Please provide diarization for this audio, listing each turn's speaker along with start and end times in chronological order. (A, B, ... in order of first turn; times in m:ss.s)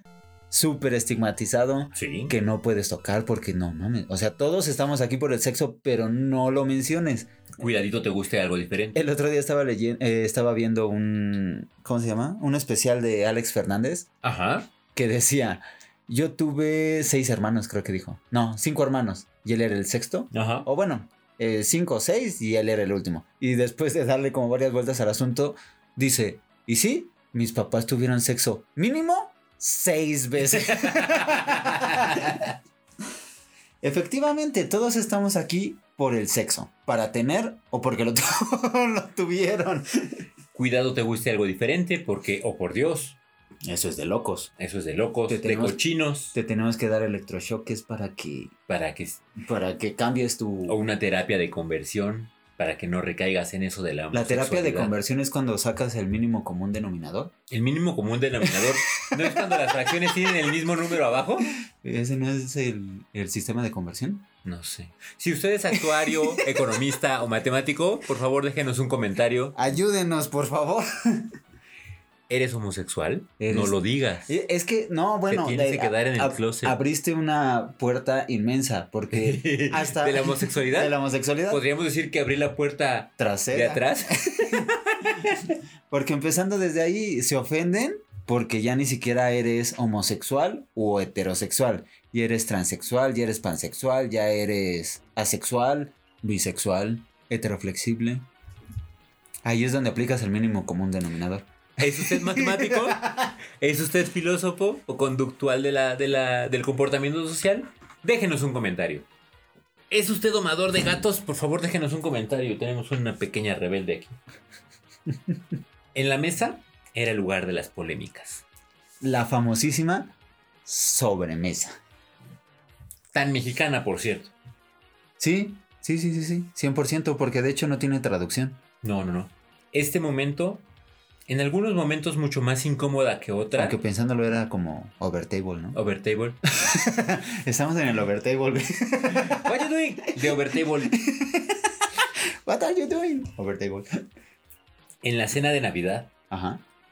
0:00.5-0:07.5 A
0:01.9-0:02.3 B
0:07.6-0:09.1 B
0:08.9-0:14.1 A
0:14.2-0:14.7 B
0:14.9-0:32.5 A
0:20.3-0:20.7 B
0:30.5-0:32.5 B
0:33.8-0:39.9 A
0:40.5-0:43.2 B
0:43.6-0:44.5 A
0:44.6-0:46.4 B
0:45.3-0:48.5 A
0:48.7-0:49.2 B
0:49.4-0:50.8 A
0:50.6-0:54.9 B
0:54.1-0:57.3 A
0:57.5-1:01.5 B
0:58.4-1:00.5 A
1:01.8-1:04.2 A
1:04.4-1:09.6 B
1:05.7-1:06.8 A
1:09.5-1:11.3 A
1:12.3-1:14.3 B
1:13.4-1:21.6 A
1:15.3-1:16.8 B
1:19.1-1:20.9 B
1:21.5-1:25.5 B
1:23.2-1:24.7 A
1:25.9-1:38.2 A
1:39.4-1:43.3 A
1:41.8-1:49.1 B
1:49.9-1:54.2 B
1:55.9-1:58.4 B
1:59.0-2:01.8 A
2:03.1-2:04.3 B
2:05.2-2:08.6 A
2:08.8-2:10.6 B
2:11.3-2:13.8 B
2:13.6-2:15.8 A
2:15.7-2:16.4 B
2:16.5-2:19.5 A
2:19.1-2:21.0 B
2:20.9-2:21.9 A
2:22.4-2:23.9 A
2:25.0-2:26.1 B
2:26.3-2:26.6 A